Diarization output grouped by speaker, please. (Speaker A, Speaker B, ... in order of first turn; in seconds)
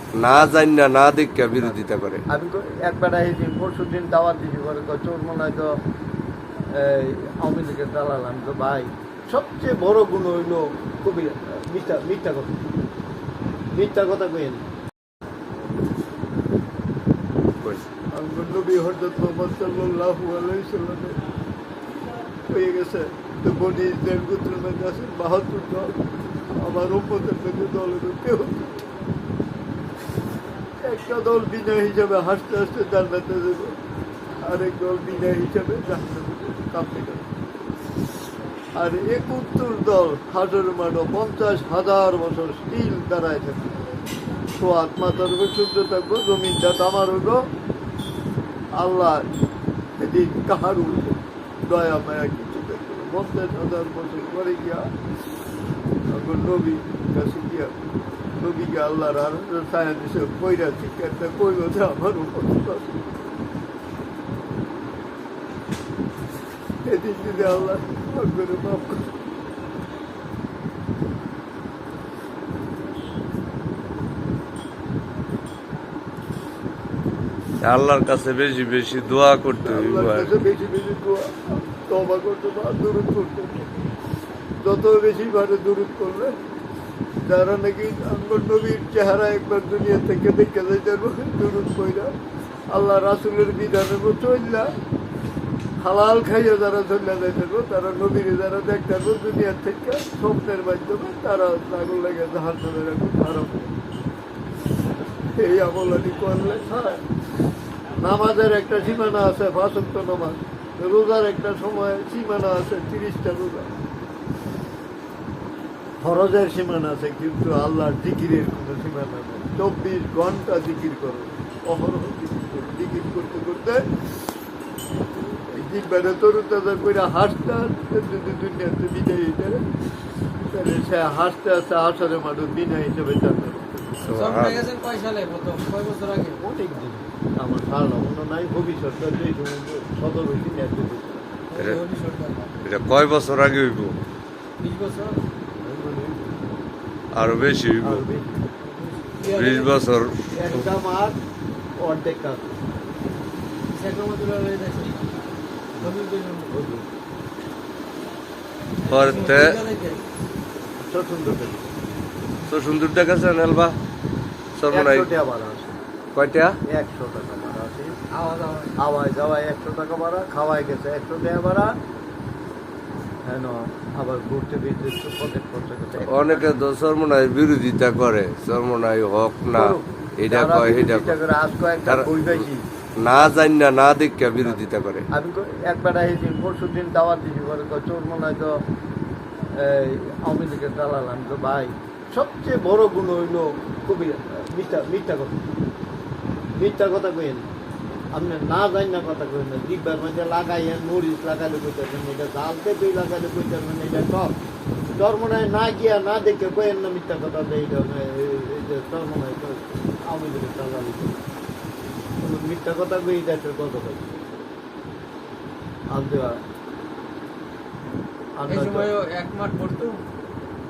Speaker A: 0.1-2.2, 77.6-80.3, 134.0-134.6, 141.6-141.8, 142.6-144.0, 147.1-148.0, 149.2-150.7, 158.8-159.6, 162.5-163.8, 164.5-165.1, 166.1-166.6, 176.0-181.2, 181.8-182.5, 183.0-185.1
Speaker B: 1.6-5.8, 6.7-12.6, 13.7-14.6, 18.1-21.2, 22.5-28.8, 30.8-33.8, 34.4-37.3, 38.8-43.8, 44.5-47.5, 48.7-49.3, 50.0-54.9, 56.1-57.8, 58.3-63.0, 66.8-69.1, 79.6-83.7, 84.6-86.4, 87.2-92.1, 92.7-94.7, 95.8-103.7, 105.3-107.0, 108.0-113.7, 116.0-123.9, 125.5-129.6, 130.5-133.8, 136.4-141.3, 145.6-146.3, 147.8-148.4, 150.3-151.2, 151.8-152.6, 156.5-156.8, 160.8-161.7, 164.7-165.7, 166.6-168.0, 168.8-171.8, 173.2-176.6, 179.5-182.6, 185.1-188.6, 189.5-195.4, 196.6-197.5, 198.1-204.4, 204.9-211.2, 212.2-214.1, 215.9-216.4, 218.3-218.9
Speaker C: 134.1-136.4, 141.5-142.5, 144.6-145.2, 148.6-149.8, 153.7-155.1, 155.8-156.5, 158.8-160.0, 168.1-168.7, 218.5-220.0